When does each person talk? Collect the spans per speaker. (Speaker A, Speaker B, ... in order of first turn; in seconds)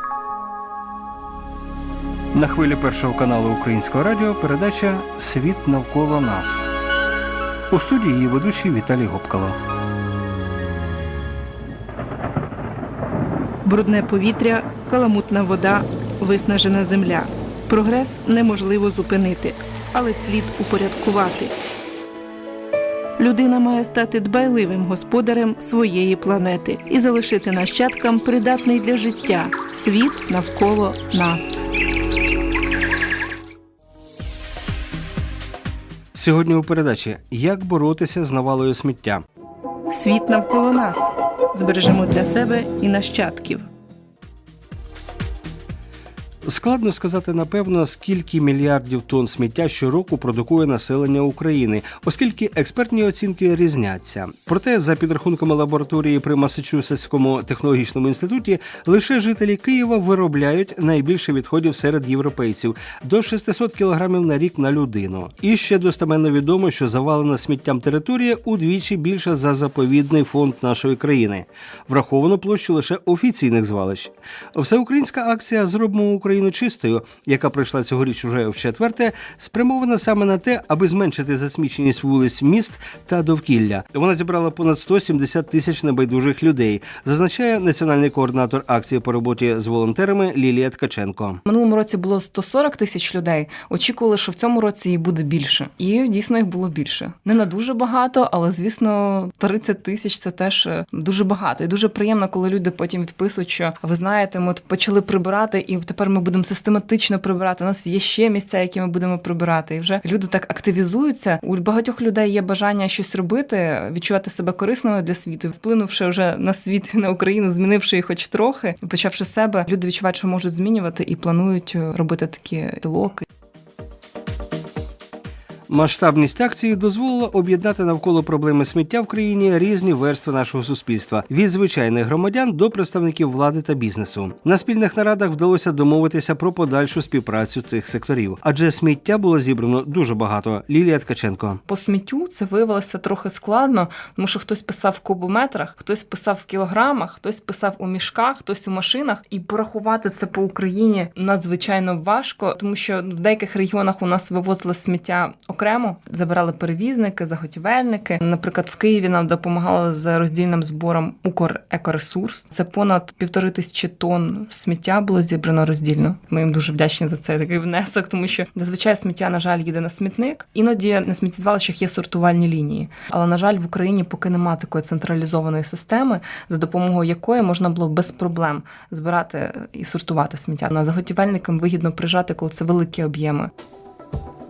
Speaker A: 2.3-6.7, 7.7-9.6, 36.1-39.2, 46.4-91.4, 125.7-141.6
Speaker B: 13.6-21.5, 23.2-31.6, 39.9-43.6
Speaker C: 91.5-123.2, 141.7-183.5